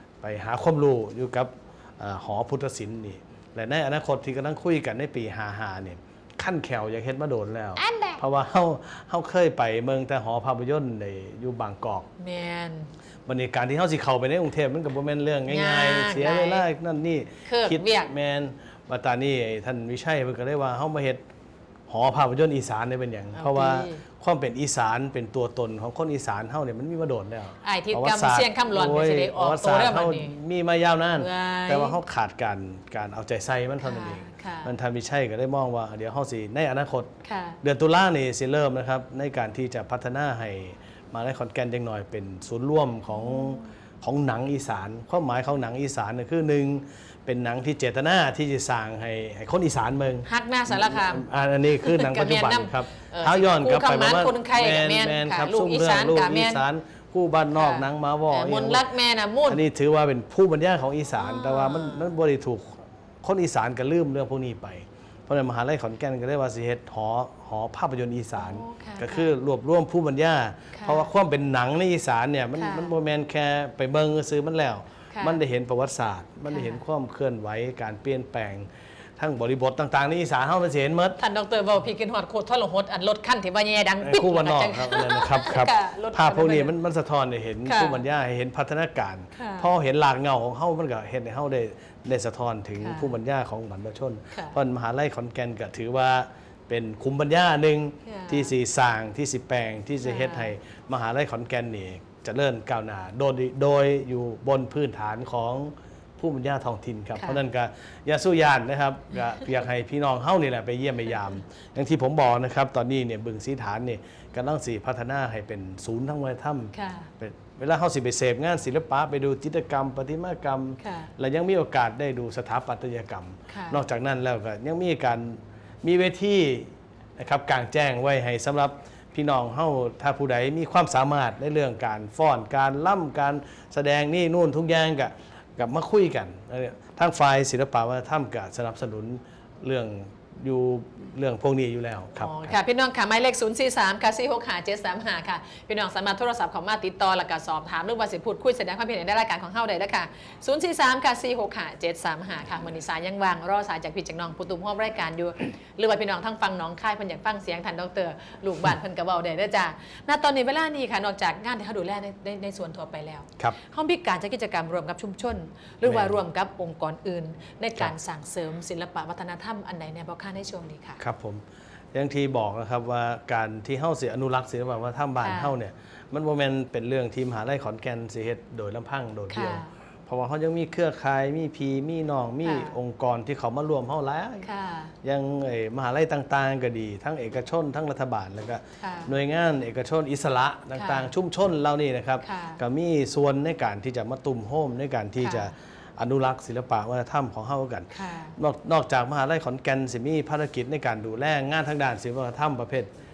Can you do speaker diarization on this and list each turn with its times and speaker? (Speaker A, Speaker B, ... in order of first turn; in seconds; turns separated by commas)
Speaker A: 0.2-12.1, Speaker B: 7.8-8.2, Speaker B: 12.2-12.9, Speaker A: 13.3-21.2, Speaker B: 15.5-16.6, Speaker B: 17.4-18.1, Speaker A: 21.9-37.1, Speaker B: 23.4-24.0, Speaker B: 27.6-30.3, Speaker B: 31.2-32.0, Speaker B: 33.8-34.7, Speaker B: 37.2-37.6, Speaker A: 37.6-58.9, Speaker B: 43.1-43.6, Speaker B: 50.3-56.6, Speaker B: 57.5-59.6, Speaker A: 59.5-81.2, Speaker B: 61.2-62.1, Speaker B: 68.4-69.3, Speaker B: 70.7-71.1, Speaker B: 72.6-72.9, Speaker B: 75.1-75.4, Speaker B: 76.5-76.8, Speaker B: 81.2-86.7, Speaker A: 84.0-142.6, Speaker B: 87.7-88.0, Speaker B: 89.3-89.7, Speaker B: 92.8-93.2, Speaker B: 94.3-94.6, Speaker B: 98.1-98.5, Speaker B: 100.0-100.5, Speaker B: 107.2-107.4, Speaker B: 116.7-117.1, Speaker B: 120.8-121.1, Speaker B: 123.5-123.8, Speaker B: 142.2-171.0, Speaker A: 165.8-166.2, Speaker A: 171.0-184.5, Speaker B: 175.2-175.6, Speaker B: 179.3-179.7, Speaker B: 182.4-182.8, Speaker B: 184.4-184.9, Speaker A: 185.0-202.9, Speaker B: 188.8-189.1, Speaker B: 190.8-191.1, Speaker B: 192.2-192.6, Speaker B: 195.2-195.5, Speaker B: 197.9-198.3